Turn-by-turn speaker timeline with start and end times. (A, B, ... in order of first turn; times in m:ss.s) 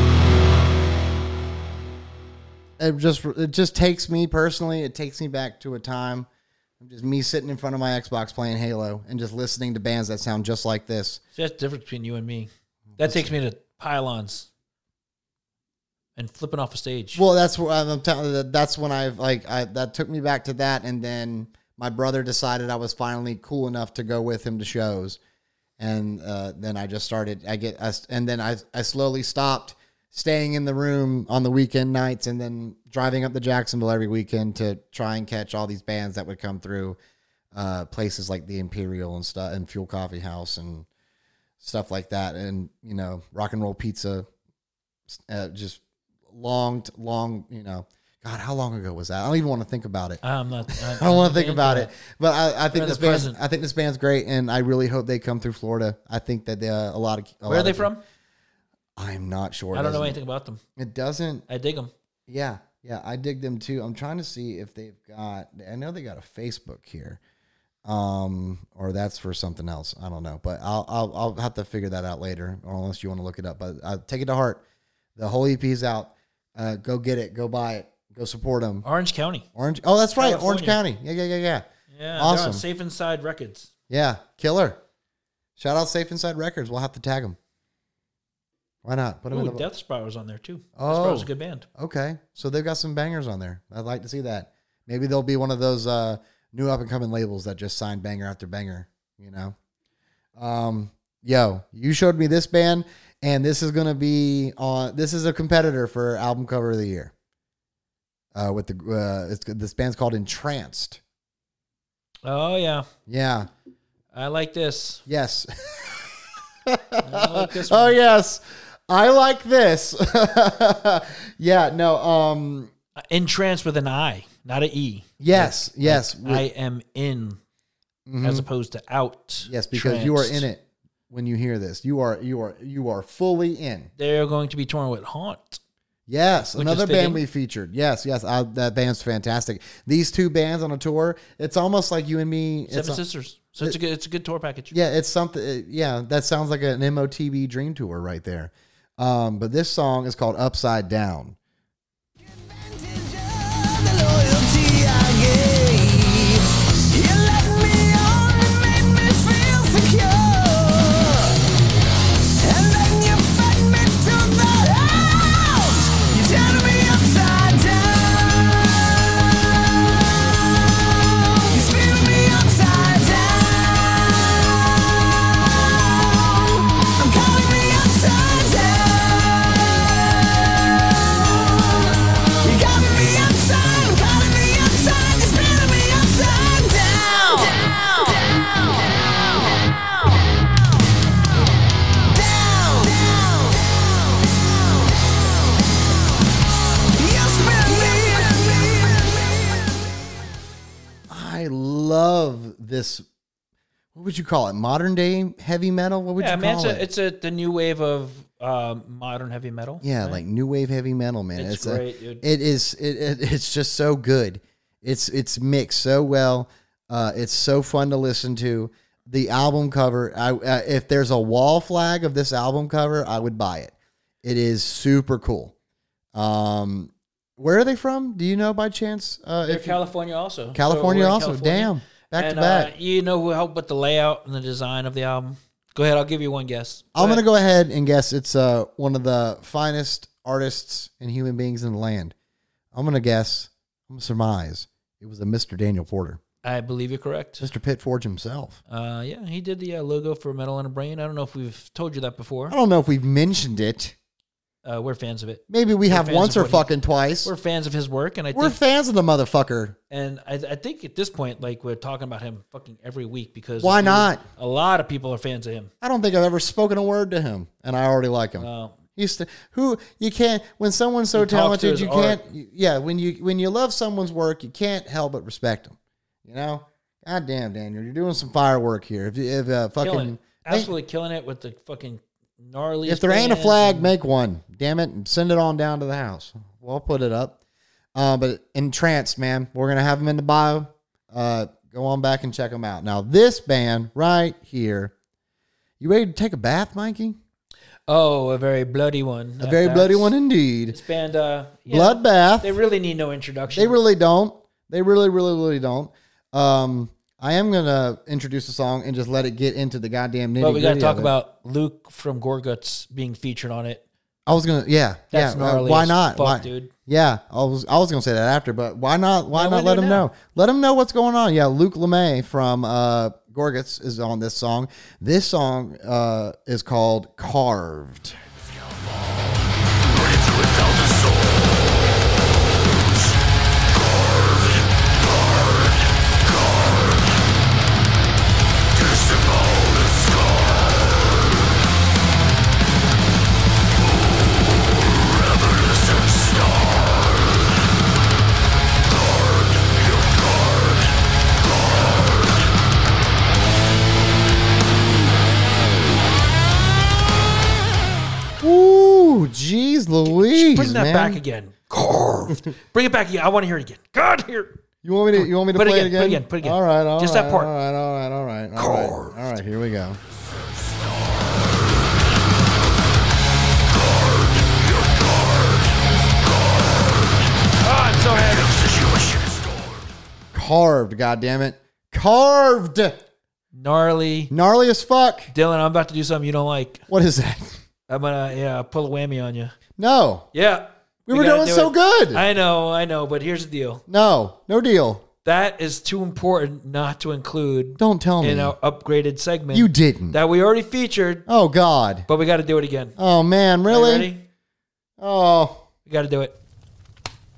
0:02.8-0:06.3 A
0:06.8-0:11.2 A
0:11.3-0:14.5 B
0:12.9-0:13.3 A
0:16.2-0:17.2 B
0:17.2-0:25.2 A
0:25.8-0:37.0 A
0:37.5-0:40.9 A
0:41.6-0:44.2 A
0:45.1-0:57.9 A
0:50.2-0:51.9 B
0:52.7-0:53.4 B
0:57.5-0:58.0 B
0:59.0-1:00.2 A
0:59.7-1:00.6 B
1:00.8-1:01.4 A
1:01.5-1:01.9 B
1:02.3-1:07.2 A
1:07.8-1:14.6 A
1:15.2-1:18.8 A
1:18.8-1:19.4 B
1:19.5-1:21.6 A
1:20.2-1:20.8 B
1:21.9-1:23.7 B
1:22.2-1:22.6 A
1:23.9-1:24.8 A
1:25.6-1:27.4 A
1:28.8-1:29.6 A
1:29.3-1:31.6 B
1:30.8-1:39.5 A
1:40.4-1:47.1 A
1:48.3-1:51.0 A
1:52.2-1:52.8 B
1:53.1-1:53.5 A
1:54.1-1:55.0 B
1:55.1-2:02.7 A
1:57.0-1:58.0 B
2:03.0-2:07.4 B
2:05.2-2:06.5 A
2:08.0-2:08.4 A
2:08.2-2:10.4 B
2:09.4-2:13.9 A
2:14.0-2:15.6 B
2:16.1-2:23.0 A
2:16.4-2:17.2 B
2:22.7-2:24.7 B
2:24.7-2:31.4 A
2:32.2-2:41.4 C
2:42.4-2:48.6 C
2:51.4-3:09.8 C
3:12.1-3:13.6 C
3:16.9-3:19.7 C
3:21.1-3:23.0 A
3:23.9-3:26.8 A
3:26.2-3:30.2 B
3:29.8-3:45.5 A
3:31.4-3:32.2 B
3:46.1-3:49.8 A
3:49.4-3:57.2 B
3:50.5-3:52.7 A
3:56.9-4:02.1 A
4:02.7-4:06.2 A
4:06.4-4:07.5 B
4:07.4-4:08.6 A
4:08.7-4:12.6 B
4:12.5-4:13.9 A
4:14.6-4:16.7 B
4:15.5-4:17.3 A
4:17.2-4:18.6 B
4:18.3-4:19.8 A
4:19.9-4:25.7 B
4:23.6-4:24.2 A
4:25.8-4:40.7 A
4:28.4-4:28.8 B
4:31.1-4:32.2 B
4:39.8-4:43.9 B
4:42.8-4:47.4 A
4:47.9-4:54.9 A
4:55.8-4:57.2 A
4:57.9-5:00.1 B
4:59.4-5:00.8 A
5:00.7-5:03.8 B
5:01.7-5:02.6 A
5:03.5-5:11.1 A
5:10.4-5:13.8 B
5:14.2-5:28.2 A
5:15.1-5:16.7 B
5:19.3-5:20.1 B
5:58.4-6:01.2 A
6:00.0-6:04.6 B
6:04.8-6:10.0 A
6:05.1-6:07.5 B
6:08.6-6:09.2 B
6:17.6-6:18.8 B
6:20.3-6:23.0 A
6:23.5-6:24.3 B
6:24.3-6:25.3 A
6:25.3-6:26.9 B
6:26.9-6:27.6 A
6:27.9-6:29.6 B
6:29.8-6:30.3 A
6:30.3-6:33.8 B
6:31.1-6:32.2 A
6:33.9-6:35.0 A
6:35.2-6:41.2 B
6:37.8-6:38.5 A
6:39.5-6:40.2 A
6:41.3-6:42.1 A
6:42.1-6:43.0 B
6:43.0-6:44.1 A
6:43.6-6:44.2 B
6:45.0-6:45.7 A
6:45.8-6:46.4 B